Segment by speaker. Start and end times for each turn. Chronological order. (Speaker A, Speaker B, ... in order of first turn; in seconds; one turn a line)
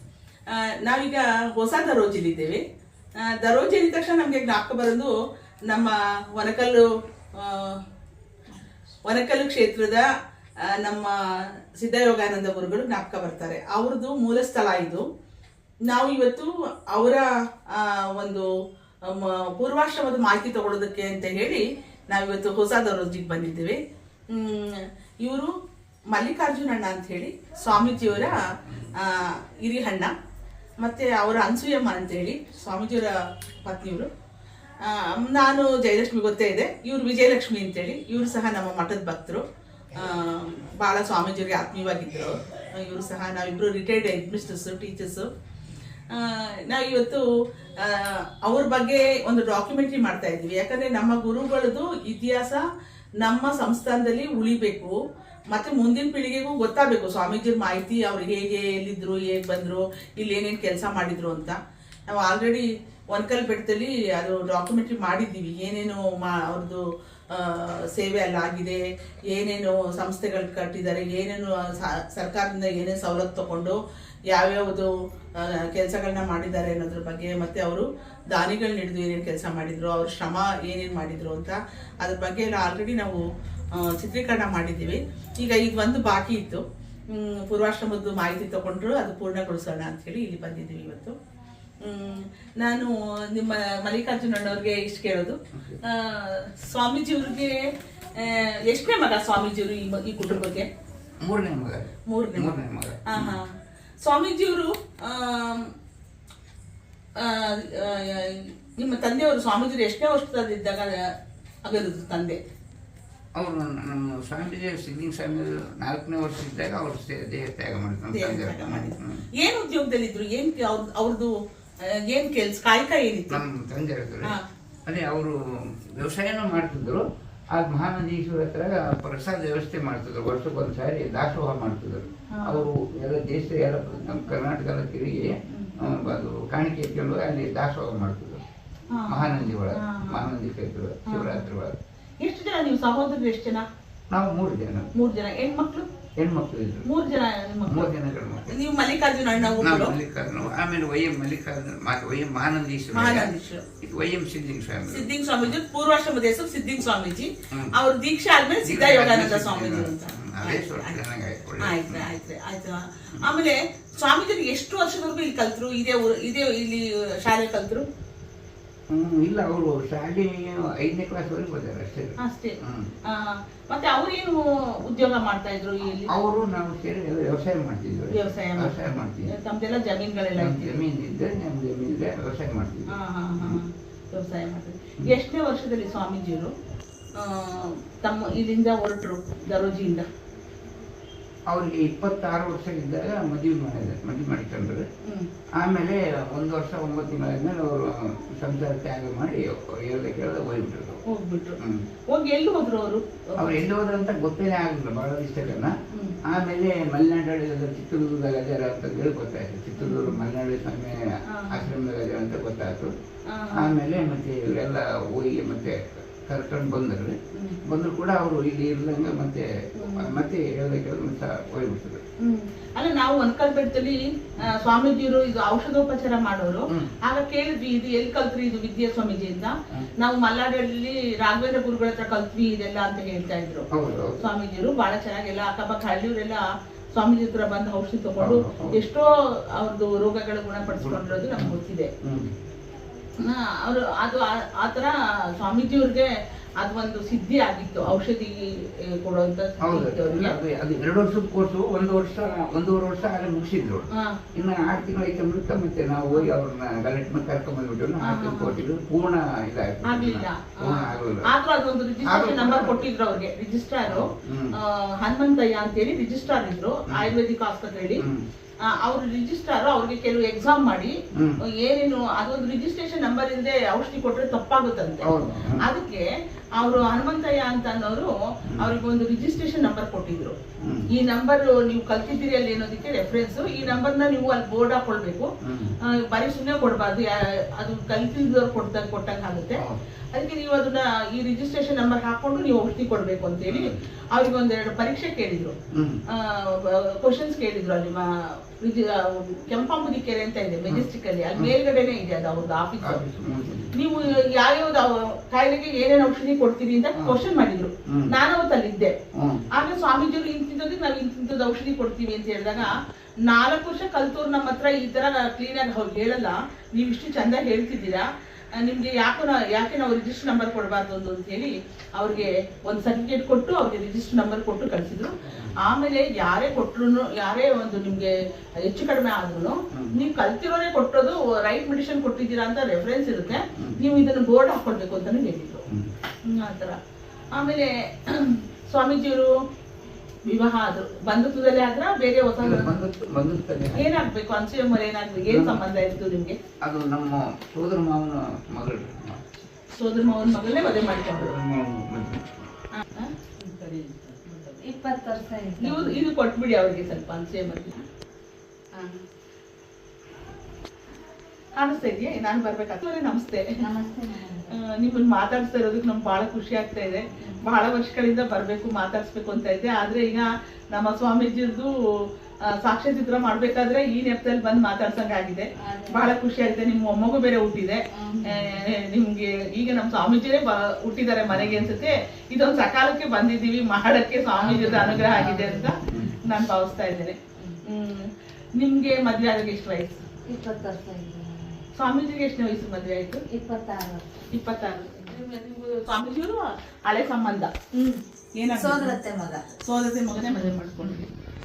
Speaker A: 0.5-2.6
Speaker A: 3.2-5.1
Speaker A: 5.7-7.8
Speaker A: 9.0-10.1
Speaker A: 10.6-15.0
Speaker A: 15.8-18.5
Speaker A: 19.0-25.5
Speaker A: 26.1-30.1
Speaker B: 27.7-28.9
Speaker A: 30.8-34.1
Speaker A: 34.8-39.4
Speaker A: 39.9-45.3
Speaker A: 46.1-47.2
Speaker A: 47.8-52.6
Speaker A: 53.2-54.9
Speaker A: 55.5-73.8
Speaker A: 74.3-91.1
Speaker A: 91.8-100.7
Speaker B: 95.5-95.8
Speaker B: 101.2-103.4
Speaker A: 102.1-103.5
Speaker A: 104.0-105.7
Speaker A: 107.2-111.1
Speaker A: 111.6-112.4
Speaker B: 113.3-119.2
Speaker A: 118.1-121.3
Speaker A: 121.9-123.4
Speaker B: 123.3-124.3
Speaker B: 124.9-138.4
Speaker A: 132.3-132.7
Speaker A: 135.5-135.7
Speaker A: 138.9-140.3
Speaker B: 139.1-141.8
Speaker A: 141.1-141.4
Speaker A: 142.2-143.6
Speaker B: 144.1-144.9
Speaker A: 144.9-145.9
Speaker B: 146.2-146.9
Speaker A: 146.8-147.9
Speaker B: 147.7-148.6
Speaker A: 148.5-149.9
Speaker B: 149.6-155.5
Speaker A: 152.9-153.6
Speaker A: 154.9-161.0
Speaker B: 158.6-162.1
Speaker A: 161.6-167.9
Speaker B: 168.9-172.9
Speaker A: 172.2-176.2
Speaker B: 176.1-179.3
Speaker A: 178.1-180.8
Speaker B: 180.4-183.6
Speaker A: 182.9-186.5
Speaker A: 187.2-190.1
Speaker B: 191.5-194.8
Speaker B: 195.6-201.0
Speaker A: 201.1-201.6
Speaker B: 201.6-201.8
Speaker A: 202.1-203.7
Speaker B: 203.4-212.9
Speaker A: 205.9-206.2
Speaker A: 209.8-210.2
Speaker A: 211.3-211.7
Speaker A: 213.3-213.7
Speaker B: 213.5-222.0
Speaker A: 217.3-217.6
Speaker A: 219.8-220.1
Speaker A: 222.2-233.7
Speaker B: 226.7-226.9
Speaker B: 233.7-234.2
Speaker A: 234.2-236.4
Speaker A: 236.9-241.9
Speaker B: 238.2-238.8
Speaker B: 240.7-242.3
Speaker A: 243.2-250.3
Speaker B: 249.6-261.3
Speaker A: 253.9-254.2
Speaker A: 258.0-258.6
Speaker A: 259.8-268.0
Speaker B: 262.1-262.9
Speaker B: 263.8-264.6
Speaker B: 268.0-268.2
Speaker A: 268.6-280.4
Speaker B: 271.1-271.4
Speaker B: 275.0-275.7
Speaker A: 280.9-285.3
Speaker B: 285.4-285.7
Speaker A: 285.8-289.6
Speaker A: 290.1-295.5
Speaker B: 293.5-293.8
Speaker B: 295.7-296.0
Speaker A: 296.1-303.0
Speaker B: 300.7-301.5
Speaker B: 302.8-303.8
Speaker A: 303.7-308.9
Speaker B: 307.9-308.1
Speaker B: 309.1-309.4
Speaker A: 309.5-335.6
Speaker B: 325.2-325.6
Speaker B: 333.5-333.9
Speaker A: 336.2-336.8
Speaker A: 337.3-339.3
Speaker A: 340.2-342.7
Speaker B: 342.4-343.9
Speaker A: 343.7-346.4
Speaker B: 345.3-345.6
Speaker B: 346.6-349.2
Speaker A: 349.7-351.3
Speaker B: 351.1-352.4
Speaker A: 352.7-353.1
Speaker C: 353.4-356.1
Speaker A: 355.6-357.8
Speaker A: 358.7-359.0
Speaker A: 361.6-363.5
Speaker C: 363.6-364.5
Speaker A: 364.5-390.0
Speaker C: 367.1-367.4
Speaker C: 375.6-376.1
Speaker C: 377.9-378.5
Speaker B: 381.3-381.7
Speaker B: 384.4-386.2
Speaker C: 384.5-385.7
Speaker C: 390.3-391.6
Speaker A: 391.8-393.2
Speaker C: 393.3-394.2
Speaker A: 394.3-397.5
Speaker C: 397.7-398.0
Speaker A: 398.4-398.9
Speaker C: 398.6-399.4
Speaker A: 399.6-401.1